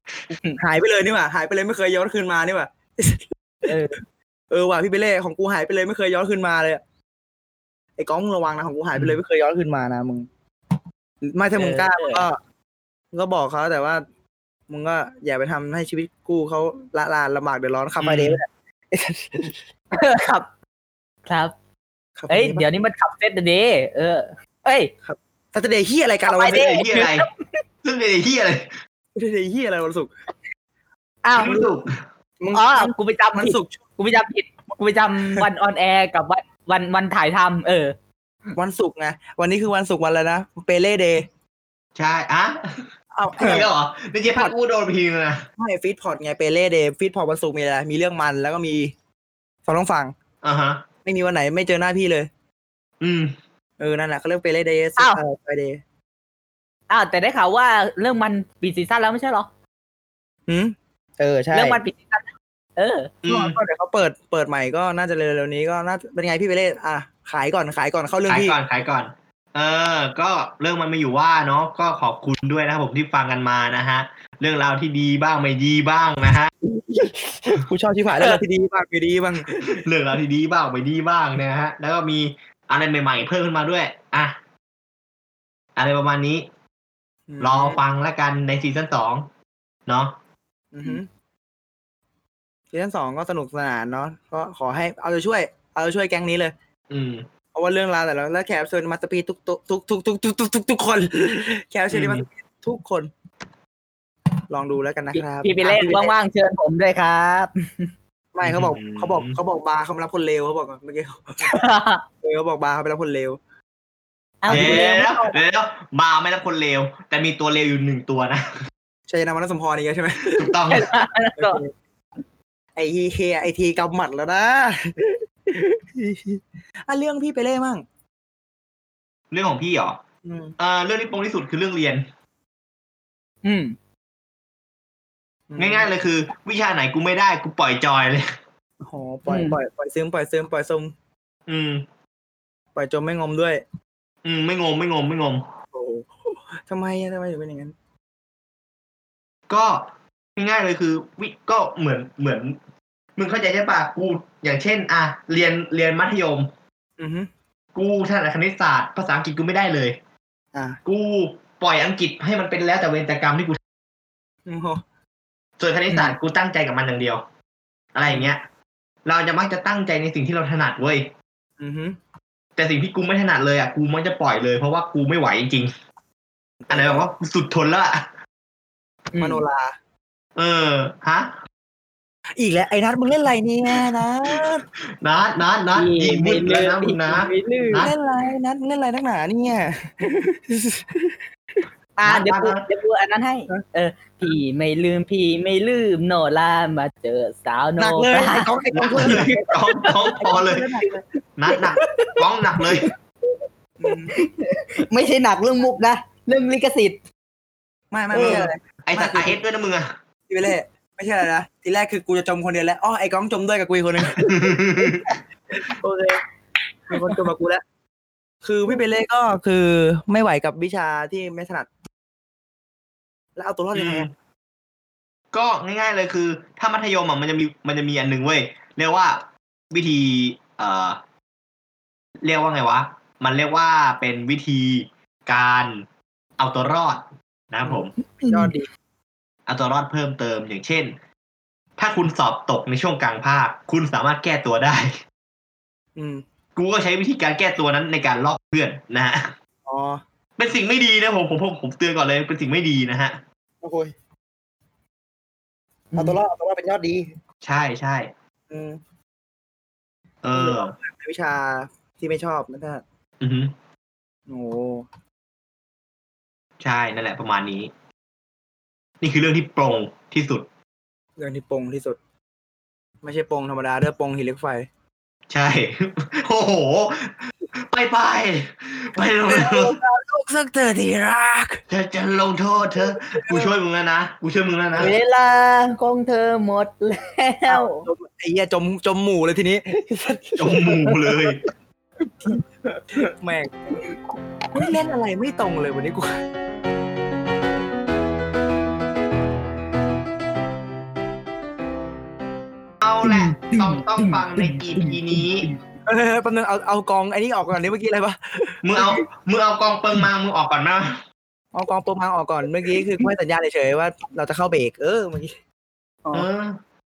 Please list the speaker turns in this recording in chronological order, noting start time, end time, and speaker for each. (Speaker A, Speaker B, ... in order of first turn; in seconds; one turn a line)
Speaker A: 0.3-0.6
Speaker B: 0.6-3.2
Speaker A: 3.7-4.0
Speaker B: 4.5-6.8
Speaker B: 8.0-10.3
Speaker B: 11.3-12.4
Speaker A: 11.6-12.3
Speaker B: 13.1-14.0
Speaker B: 14.7-19.6
Speaker C: 18.0-18.4
Speaker A: 19.9-20.5
Speaker A: 21.3-21.5
Speaker B: 22.2-22.7
Speaker A: 22.3-24.9
Speaker B: 25.0-26.7
Speaker A: 26.3-27.6
Speaker C: 26.5-27.3
Speaker C: 27.8-28.8
Speaker B: 29.1-30.1
Speaker A: 31.2-31.7
Speaker C: 31.4-31.9
Speaker B: 32.4-33.8
Speaker A: 32.5-38.0
Speaker B: 38.6-41.3
Speaker C: 42.0-42.8
Speaker B: 43.1-43.7
Speaker C: 43.4-45.5
Speaker B: 45.6-48.9
Speaker B: 49.7-50.1
Speaker C: 50.4-50.9
Speaker B: 51.0-52.3
Speaker C: 53.0-53.4
Speaker B: 53.8-55.8
Speaker A: 56.9-59.5
Speaker B: 60.5-61.8
Speaker A: 61.5-63.2
Speaker C: 63.2-63.6
Speaker B: 63.3-68.6
Speaker C: 68.3-76.5
Speaker B: 76.6-79.8
Speaker C: 79.6-84.4
Speaker C: 85.8-86.5
Speaker B: 87.3-87.8
Speaker C: 87.4-89.3
Speaker C: 89.9-90.2
Speaker B: 90.7-91.1
Speaker B: 92.7-96.5
Speaker C: 96.9-97.3
Speaker B: 97.5-103.1
Speaker C: 101.9-102.3
Speaker B: 104.5-106.1
Speaker A: 105.1-107.9
Speaker B: 108.3-111.6
Speaker C: 108.4-109.4
Speaker A: 111.4-112.0
Speaker B: 112.2-113.4
Speaker A: 114.4-115.4
Speaker B: 114.5-114.9
Speaker C: 114.5-118.5
Speaker B: 119.1-120.5
Speaker C: 120.4-120.9
Speaker A: 120.7-121.6
Speaker B: 121.4-121.7
Speaker B: 122.8-127.8
Speaker C: 129.3-130.0
Speaker B: 130.2-130.6
Speaker C: 130.6-132.0
Speaker A: 133.4-133.8
Speaker B: 135.5-135.9
Speaker C: 135.6-138.3
Speaker B: 138.8-140.9
Speaker A: 139.3-139.6
Speaker C: 141.5-141.9
Speaker B: 142.8-143.6
Speaker C: 144.2-145.4
Speaker B: 145.7-147.7
Speaker C: 149.5-152.6
Speaker C: 153.2-156.5
Speaker B: 157.0-157.3
Speaker C: 157.8-160.0
Speaker B: 160.5-160.8
Speaker C: 160.8-163.6
Speaker B: 164.5-164.8
Speaker C: 165.6-167.2
Speaker C: 167.9-168.4
Speaker B: 168.1-168.3
Speaker C: 169.0-171.1
Speaker B: 171.6-172.0
Speaker C: 172.6-175.7
Speaker B: 176.7-177.0
Speaker C: 176.7-178.1
Speaker A: 179.1-179.4
Speaker B: 179.2-179.8
Speaker C: 180.4-181.4
Speaker B: 182.4-184.7
Speaker C: 185.0-187.9
Speaker A: 185.7-187.8
Speaker B: 187.8-191.2
Speaker A: 192.0-200.2
Speaker C: 192.1-192.6
Speaker B: 197.8-199.3
Speaker C: 198.8-200.7
Speaker B: 200.2-201.0
Speaker C: 201.4-202.9
Speaker A: 201.5-202.2
Speaker B: 203.8-204.1
Speaker A: 203.8-207.0
Speaker B: 207.9-209.4
Speaker A: 208.1-208.5
Speaker C: 208.1-209.9
Speaker B: 210.3-214.9
Speaker C: 214.1-215.1
Speaker B: 215.6-216.2
Speaker B: 216.9-217.6
Speaker A: 216.9-217.2
Speaker B: 218.4-221.7
Speaker B: 223.4-224.1
Speaker C: 223.8-224.1
Speaker C: 225.3-231.0
Speaker C: 232.2-235.8
Speaker C: 236.4-237.9
Speaker A: 238.2-238.6
Speaker B: 238.3-238.7
Speaker C: 239.5-240.9
Speaker C: 241.8-245.0
Speaker B: 246.0-246.2
Speaker C: 246.6-249.3
Speaker B: 249.7-250.0
Speaker C: 250.4-253.2
Speaker B: 253.6-253.9
Speaker A: 255.9-256.2
Speaker B: 256.0-257.1
Speaker C: 257.4-258.1
Speaker B: 258.5-258.8
Speaker C: 260.2-260.8
Speaker B: 260.3-262.8
Speaker C: 263.2-263.6
Speaker B: 264.3-264.9
Speaker C: 266.6-267.7
Speaker C: 269.0-270.5
Speaker B: 271.2-272.0
Speaker B: 273.0-274.7
Speaker C: 275.3-277.2
Speaker C: 277.7-279.8
Speaker B: 279.3-281.6
Speaker C: 281.7-284.9
Speaker B: 283.1-283.5
Speaker A: 284.8-287.9
Speaker B: 287.5-291.3
Speaker C: 290.4-291.4
Speaker B: 292.2-293.8
Speaker B: 294.6-296.2
Speaker C: 302.8-305.5
Speaker A: 303.0-305.5
Speaker B: 305.9-309.0
Speaker C: 308.6-311.0
Speaker B: 311.5-315.4
Speaker C: 316.1-316.6